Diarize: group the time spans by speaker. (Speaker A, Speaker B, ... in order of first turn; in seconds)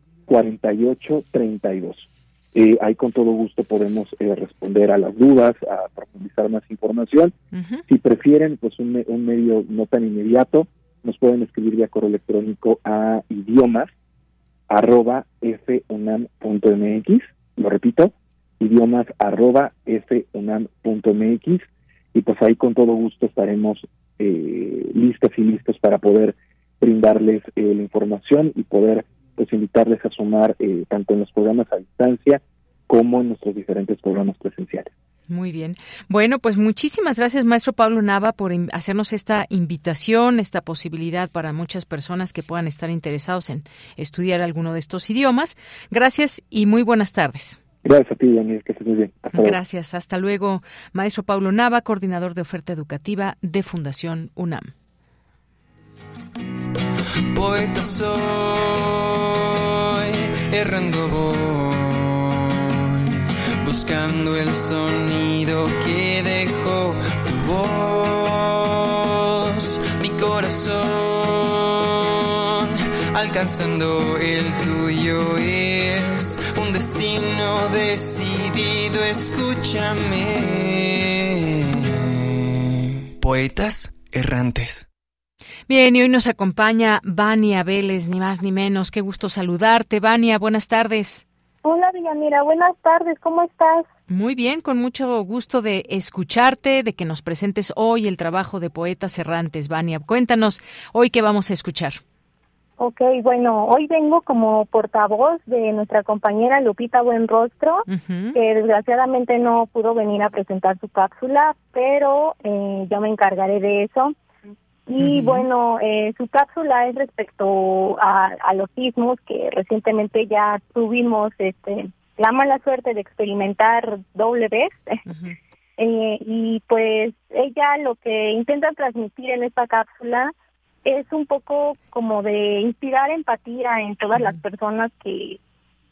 Speaker A: 0.3-7.3, 7.9-13.9, 14.7-34.9, 47.8-49.6
Speaker B: 7.5-7.8, 35.3-47.6, 49.3-54.7, 85.7-91.2, 94.1-102.0, 107.9-108.3, 115.0-115.5, 125.1-125.3
Speaker C: 57.3-59.2, 60.5-62.0, 63.6-68.8, 69.5-71.7, 72.6-81.0
Speaker D: 91.6-93.9, 102.8-114.1, 114.9-125.0, 125.8-130.3, 130.8-135.4